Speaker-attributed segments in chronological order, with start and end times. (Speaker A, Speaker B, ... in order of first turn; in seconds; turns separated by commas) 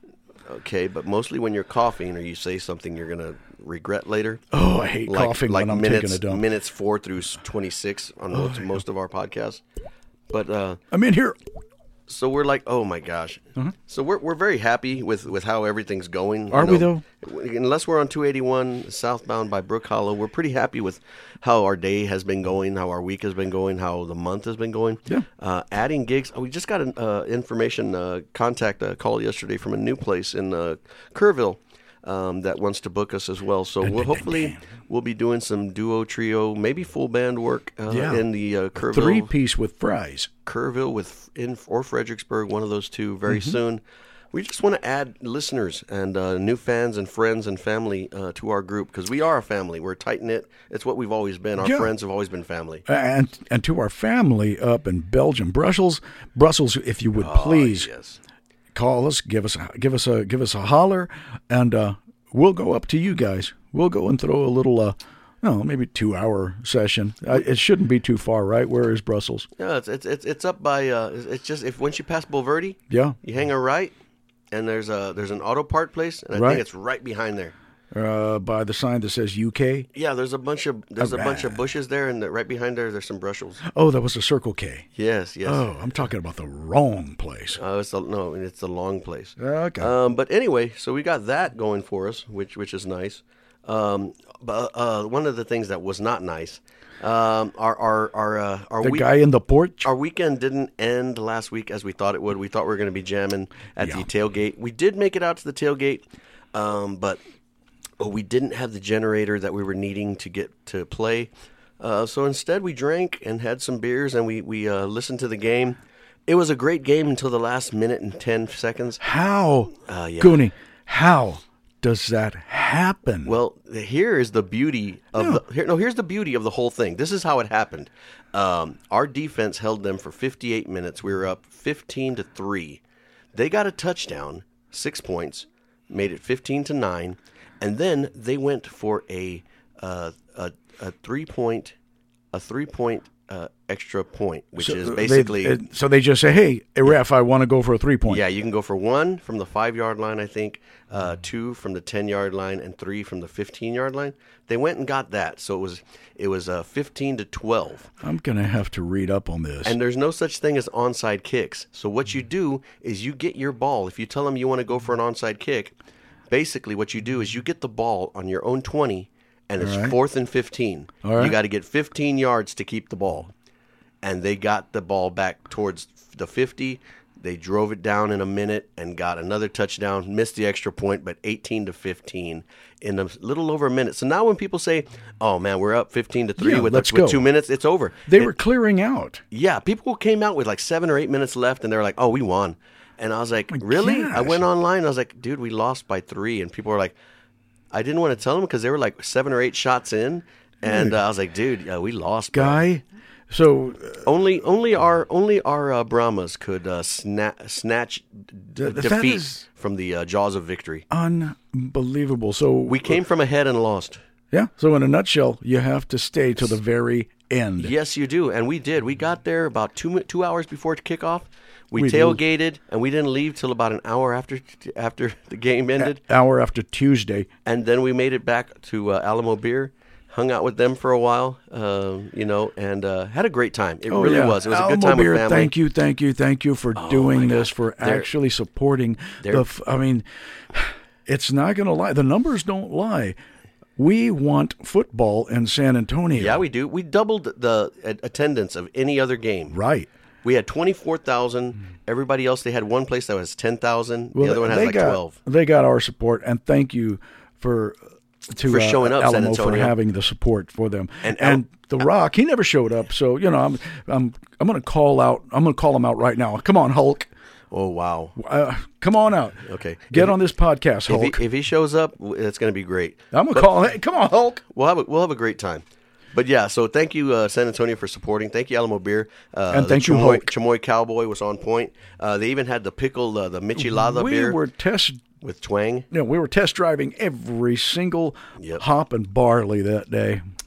Speaker A: 0.5-4.4, Speaker B: 4.5-6.4, Speaker A: 5.1-9.6, Speaker B: 8.3-8.8, Speaker A: 10.3-10.8, Speaker B: 10.9-11.4, Speaker A: 12.1-39.3, Speaker B: 16.5-17.0, Speaker B: 33.8-34.6, Speaker B: 37.9-38.2, Speaker B: 38.8-40.3, Speaker A: 40.5-43.8, Speaker B: 43.3-43.6, Speaker A: 44.3-52.9, Speaker B: 51.6-51.9, Speaker B: 52.9-57.9, Speaker A: 57.2-58.2, Speaker B: 58.7-69.5, Speaker A: 69.6-73.9, Speaker B: 72.9-73.2, Speaker A: 74.5-77.5, Speaker B: 76.3-76.6, Speaker B: 77.9-79.9, Speaker A: 79.9-83.6, Speaker B: 81.0-81.6, Speaker B: 83.7-84.9, Speaker A: 85.0-85.7, Speaker B: 85.5-87.6, Speaker A: 87.6-99.1, Speaker B: 89.4-89.9, Speaker B: 98.8-99.9, Speaker A: 99.8-107.2, Speaker B: 103.8-104.1, Speaker A: 108.0-119.0, Speaker B: 119.0-123.3, Speaker A: 119.8-120.4, Speaker A: 123.2-132.8, Speaker A: 133.3-141.8, Speaker A: 142.3-145.6, Speaker B: 144.6-148.2, Speaker A: 148.1-157.9, Speaker B: 158.0-159.8, Speaker A: 159.7-165.8, Speaker A: 166.3-173.3, Speaker B: 169.6-169.9, Speaker B: 171.0-171.3, Speaker A: 174.0-188.3, Speaker B: 186.4-187.3, Speaker B: 188.1-189.2, Speaker A: 189.3-196.9, Speaker B: 193.5-194.5, Speaker A: 197.7-202.7, Speaker B: 200.6-200.9, Speaker B: 202.3-204.1, Speaker A: 204.1-210.9, Speaker B: 208.6-209.4, Speaker B: 210.9-213.0, Speaker A: 212.7-214.0, Speaker B: 214.3-217.7, Speaker A: 217.6-226.0, Speaker B: 221.8-222.2, Speaker B: 225.8-227.3, Speaker A: 227.4-235.5, Speaker B: 233.9-243.2, Speaker A: 236.8-238.1, Speaker A: 239.2-239.5, Speaker B: 243.8-246.4, Speaker A: 246.1-249.6, Speaker B: 249.5-249.9, Speaker A: 250.2-255.2, Speaker B: 254.2-267.1, Speaker A: 258.4-259.7, Speaker A: 261.0-261.4, Speaker A: 267.5-268.2, Speaker B: 268.2-271.2, Speaker A: 269.4-270.2, Speaker A: 270.9-273.5, Speaker B: 273.1-274.4, Speaker A: 274.5-284.4, Speaker B: 279.5-280.3, Speaker B: 283.6-285.0, Speaker A: 285.2-285.9, Speaker B: 285.9-290.2, Speaker A: 288.4-288.6